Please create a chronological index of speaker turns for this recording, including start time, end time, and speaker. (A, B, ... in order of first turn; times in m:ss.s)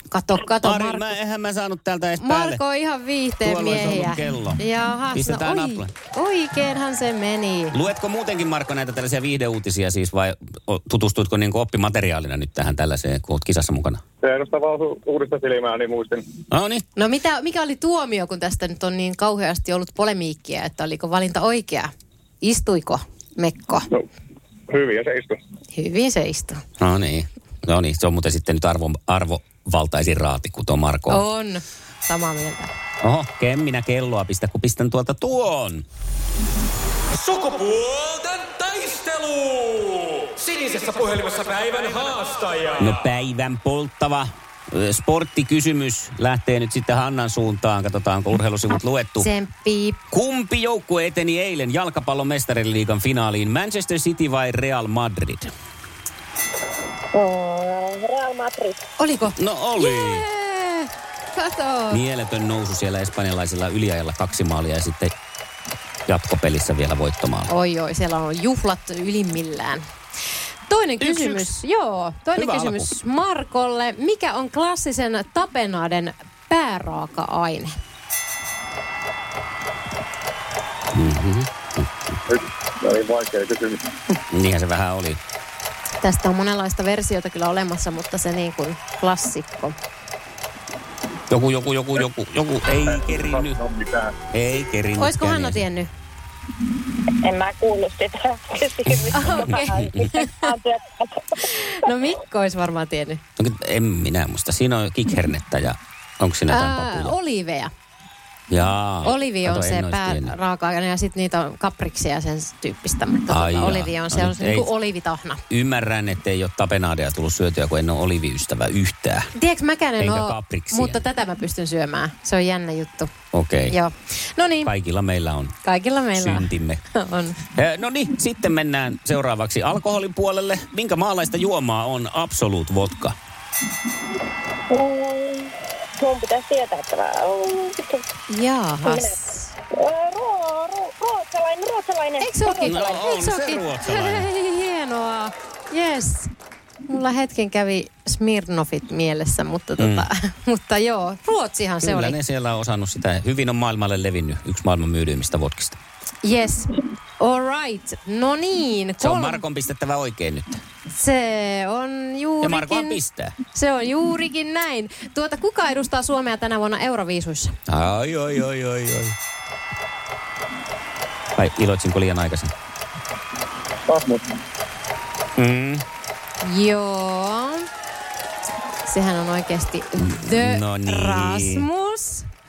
0:00.1-0:01.1 A
0:00.6-0:02.6 B
0:02.2-0:07.8 A
0:03.4-0:04.6 B
0:05.1-0:05.9 B
0:07.7-0:14.0 B
0:14.2-0:16.3 C
0:16.5-0:16.8 B
0:17.0-0:21.9 A
0:22.4-0:23.9 A
0:24.7-0:25.4 C
0:25.7-0:26.6 A
0:26.8-0:31.2 B
0:31.1-0:32.7 A
0:33.0-0:35.8 B
0:37.2-0:42.9 D
0:42.8-0:49.3 B
0:49.2-0:50.0 A
0:50.1-0:55.5 B
0:57.1-0:58.8 E
0:59.0-1:02.0 A
0:59.4-1:00.3 B
1:01.9-1:05.1 B
1:06.1-1:07.5 B
1:07.5-1:09.8 A
1:10.7-1:17.7 A
1:11.0-1:11.5 B
1:12.4-1:12.9 B
1:20.9-1:21.9 B
1:22.3-1:23.9 C
1:24.3-1:25.2 B
1:26.0-1:29.8 A
1:31.3-1:33.6 B
1:32.7-1:34.1 C
1:34.3-1:35.6 B
1:35.0-1:35.9 A
1:37.1-1:41.4 E
1:39.1-1:40.5 A
1:41.6-1:43.2 A
1:43.4-1:47.2 B
1:46.5-1:47.7 A
1:48.5-1:50.3 B
1:49.0-1:55.4 A
1:53.3-1:54.7 B
1:55.5-1:59.3 B
1:59.4-2:03.1 A
2:00.0-2:01.0 B
2:03.3-2:03.7 B
2:03.7-2:04.7 A
2:04.6-2:05.6 B
2:05.6-2:07.4 A
2:06.2-2:06.8 B
2:07.6-2:13.2 B
2:14.7-2:18.1 E
2:18.3-2:19.5 A
2:18.8-2:19.2 E
2:19.7-2:23.0 E
2:22.2-2:26.3 A
2:22.6-2:24.3 B
2:26.9-2:32.2 A
2:29.8-2:30.1 B
2:31.8-2:35.8 B
2:36.2-2:39.4 A
2:39.0-2:40.6 B
2:40.9-2:43.0 A
2:42.4-2:43.4 B
2:43.5-2:47.6 A
2:47.7-2:49.2 B
2:51.4-2:52.5 B
2:53.9-2:54.2 C
2:55.4-2:55.8 B
2:56.4-2:57.7 A
2:58.8-3:02.3 A
3:00.0-3:01.7 B